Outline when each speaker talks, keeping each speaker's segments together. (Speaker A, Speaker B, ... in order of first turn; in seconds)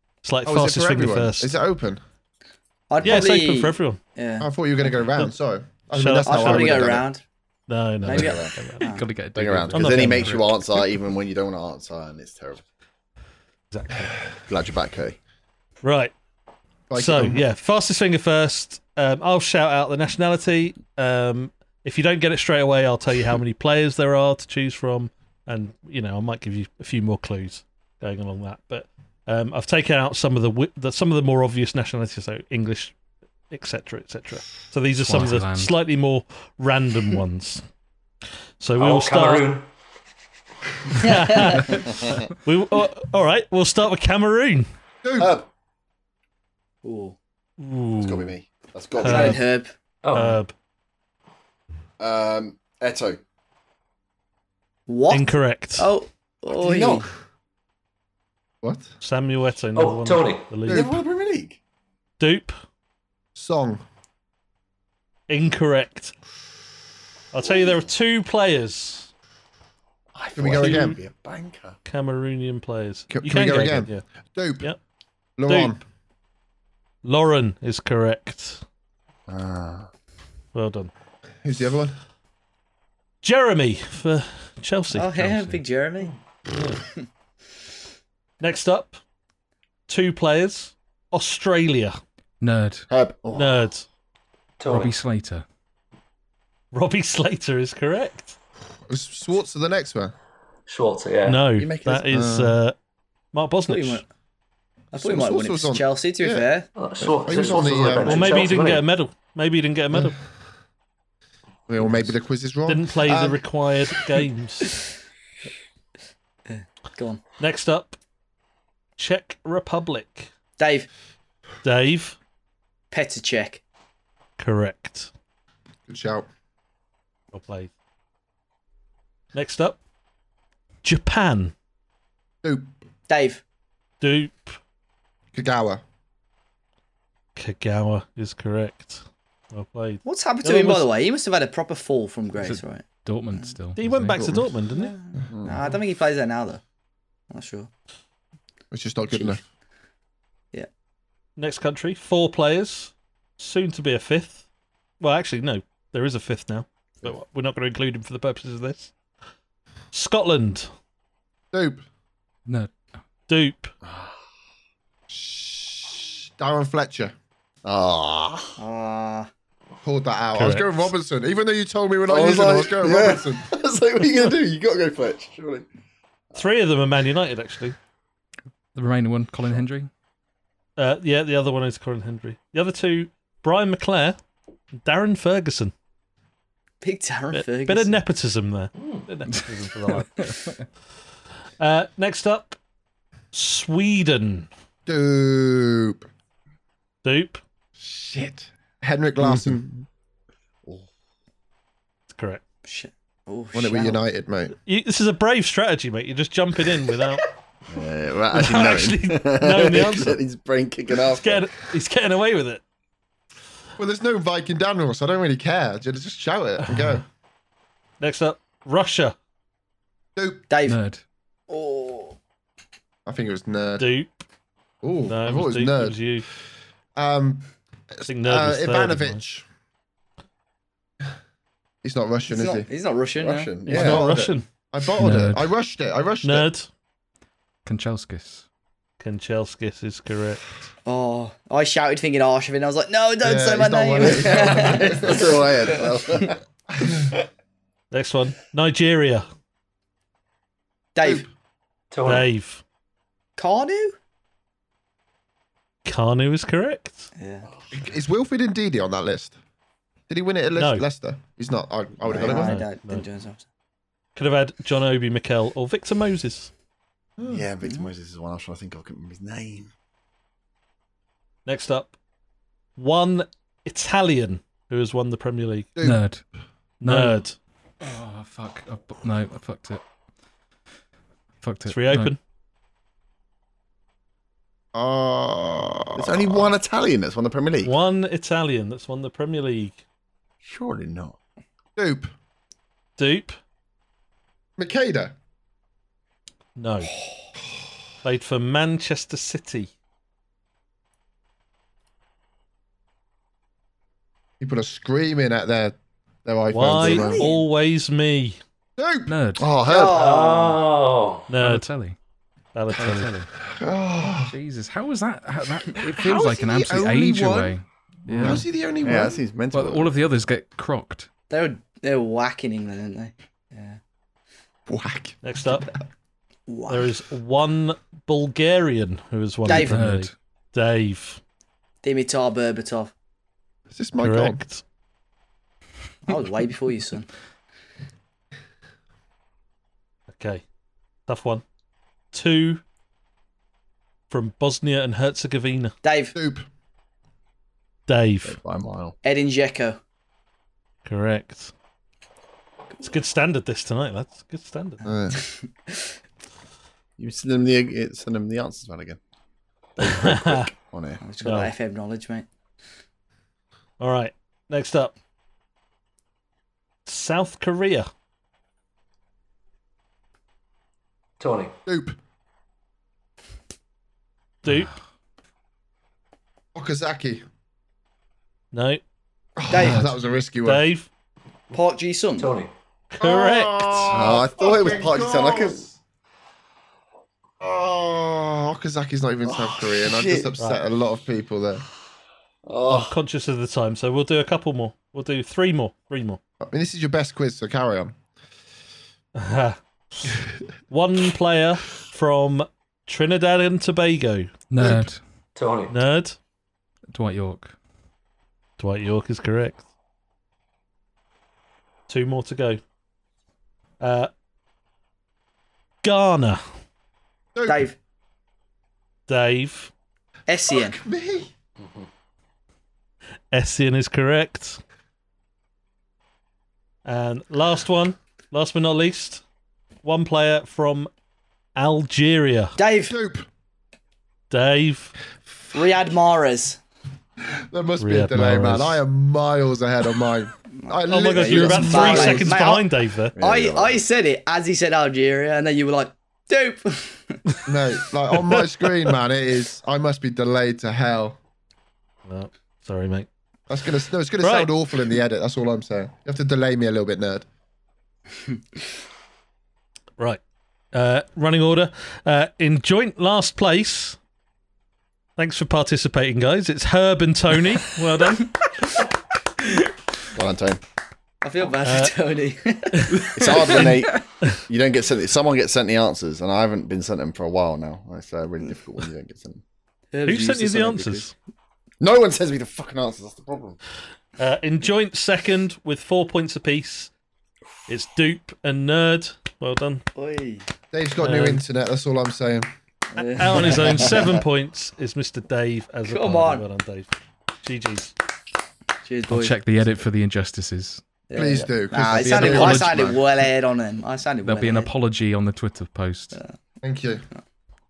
Speaker A: 0.2-1.6, 3.0-4.0, 5.9-7.1, 7.7-8.9, 9.7-10.5, 13.7-14.3, 15.8-16.1, 16.9-33.0, 33.5-37.6, 38.6-39.5, 41.0-44.7, 47.6-48.3, 49.0-49.4, 50.1-50.5, 55.1-55.9, 59.0-61.0, 62.2-62.5, 65.3-66.2, 67.3-69.1, 70.6-70.8, 71.8-74.0, 75.5-75.8, 77.0-78.6, 80.5-80.9, 83.2-85.1, 86.5-86.8, 88.4-89.0, 89.9-92.0, 93.3-93.9, 96.7-98.4, 101.2-102.8, 103.3-104.0, 108.0-110.2, 112.7-114.8, 117.4-118.0, 119.0-120.3, 121.6-122.2, 124.4-125.1, 127.3-127.7, 129.3-129.8, 130.8-131.5, 134.0-134.6, 137.3-140.8, 143.8-144.9, 151.4-154.4, 155.0-158.9, 159.9-160.7, 163.3-163.7, 170.3-170.8, 176.3-177.8, 180.8-184.2, 184.8-185.7, 187.3-190.5, 191.6-192.6, 193.3-194.5, 197.0-197.4, 202.1-202.4, 204.6-207.2, 208.3-210.2, 211.0-212.6, 216.7-217.0, 218.0-219.2, 223.8-224.2, 225.1-226.3, 228.1-229.2, 233.7-234.5, 236.2-236.7, 239.0-240.4, 247.9-249.3, 252.0-252.6, 255.8-257.1, 260.6-260.9, 262.2-263.1, 264.1-266.5, 271.4-271.9, 272.8-275.7, 276.8-277.4, 281.6-282.2, 287.6-289.8, 293.0-293.4, 296.6-296.9, 298.0-299.7, 306.5-308.4, 311.3-311.7, 312.6-313.3, 325.2-325.7, 326.7-331.2, 334.0-334.6, 340.1-340.4, 341.1-341.4, 342.1-342.6, 344.1-345.8, 347.9-348.4, 350.9-351.5, 352.8-354.9, 359.8-360.5, 361.2-361.5, 363.8-364.9, 366.9-367.9, 374.4-374.8, 378.5-378.8, 380.4-380.9, 382.9-383.9, 390.4-390.6, 392.7-396.2, 399.1-400.1, 400.7-404.3, 405.7-406.2, 408.6-409.6, 411.9-412.6, 413.8-414.1, 415.8-416.4, 419.1-419.7, 423.3-424.6, 426.9-429.2, 429.8-430.9, 431.6-432.6, 434.3-434.9, 437.8-438.8, 440.9-443.1, 452.1-453.1, 454.2-454.6, 460.0-464.0, 465.2-468.4, 471.6-471.9, 472.7-474.4, 480.1-481.1, 484.2-486.9, 487.7-489.8, 491.0-491.4, 493.0-497.9
Speaker B: 0.4-2.0, 4.4-7.0, 16.9-17.4, 45.0-45.3, 58.6-58.9, 63.4-63.8, 70.3-71.0, 73.1-74.7, 75.4-75.8, 81.4-82.0, 98.9-100.1, 105.0-106.5, 107.0-108.3, 111.7-113.4, 125.9-126.3, 132.4-132.7, 135.3-135.8, 148.7-149.4, 161.5-161.8, 165.1-167.1, 169.8-173.4, 194.8-196.1, 197.8-199.6, 203.5-204.6, 213.8-217.0, 220.2-220.4, 223.1-223.9, 224.8-226.2, 226.9-229.4, 231.8-232.7, 233.7-236.5, 243.2-245.8, 246.7-247.1, 251.0-251.3, 257.7-259.4, 260.1-262.6, 267.2-267.4, 284.7-286.5, 291.8-292.1, 294.6-295.1, 304.4-307.3, 308.8-309.1, 313.4-314.4, 315.9-317.6, 318.1-319.2, 324.7-325.7, 333.7-334.4, 346.1-346.4, 354.8-355.2, 371.6-372.0, 376.5-377.2, 379.4-380.6, 383.0-385.8, 387.4-391.6, 396.4-397.9, 417.3-417.7, 420.5-421.3, 432.9-433.3, 437.4-442.3, 447.5-451.2, 453.5-457.2, 490.7-492.5, 501.1-502.7, 506.6-507.1
Speaker C: 2.9-4.5, 6.3-7.3, 8.0-9.1, 41.0-41.7, 46.8-47.2, 49.0-49.7, 54.9-57.1, 84.9-86.1, 103.7-104.0, 104.9-106.7, 116.5-117.2, 120.6-120.9, 122.9-123.6, 133.1-133.4, 140.1-142.8, 144.8-146.6, 147.3-147.7, 149.1-149.4, 168.6-169.3, 186.8-188.0, 202.6-204.0, 220.5-220.8, 221.5-222.2, 232.3-233.5, 240.8-245.3, 250.9-251.2, 253.4-253.9, 257.1-257.5, 262.1-263.4, 306.8-307.4, 309.6-310.6, 321.3-323.8, 326.5-326.9, 329.5-329.8, 331.8-332.9, 336.1-337.1, 345.8-346.1, 349.0-349.8, 355.3-355.7, 361.0-362.3, 379.5-379.8, 381.5-382.3, 417.5-417.8, 420.3-420.8, 432.6-432.9, 435.5-436.6, 440.6-442.7, 443.2-447.2, 471.2-473.5, 479.9-481.1, 489.9-490.4, 492.9-493.9, 495.9-496.4, 498.8-499.4, 501.1-504.7
Speaker D: 8.1-8.6, 9.3-12.6, 14.4-15.2, 41.9-42.2, 45.2-45.5, 48.0-49.4, 52.0-53.2, 56.5-57.1, 60.7-61.6, 70.1-71.8, 79.3-79.9, 92.9-93.7, 101.6-102.5, 145.3-145.6, 163.8-164.2, 167.6-168.6, 172.1-175.7, 199.2-199.8, 207.7-211.6, 233.2-234.3, 244.0-247.2, 267.3-269.7, 285.9-287.8, 290.4-291.2, 309.4-309.9, 318.1-320.0, 348.2-348.9, 357.0-359.0, 359.8-361.1, 383.9-385.6, 389.3-390.3, 392.4-393.0, 443.1-443.8, 470.1-470.6, 473.1-479.4, 481.8-483.6, 502.3-503.0
Speaker E: 8.8-10.5, 34.9-35.8, 85.1-85.6, 92.4-92.9, 94.7-95.4, 142.4-144.3, 162.4-163.0, 178.7-179.9, 190.1-190.5, 220.7-221.0, 235.0-235.5, 237.6-238.4, 275.8-276.2, 276.8-277.2, 277.8-279.9, 281.4-282.1, 309.1-309.5, 311.4-312.0, 312.7-313.2, 314.2-318.4, 319.5-321.1, 329.5-330.1, 374.5-374.7, 379.6-379.9, 404.5-405.0, 406.9-407.6, 473.6-474.0, 499.1-500.8, 501.9-502.8, 504.2-506.2
Speaker F: 38.8-39.7, 50.0-50.4, 59.7-60.5, 94.6-94.9, 100.7-101.4, 106.8-108.9, 188.8-189.1, 251.9-252.3, 309.9-311.3, 371.2-371.6, 382.2-382.5, 405.4-405.8, 421.6-421.9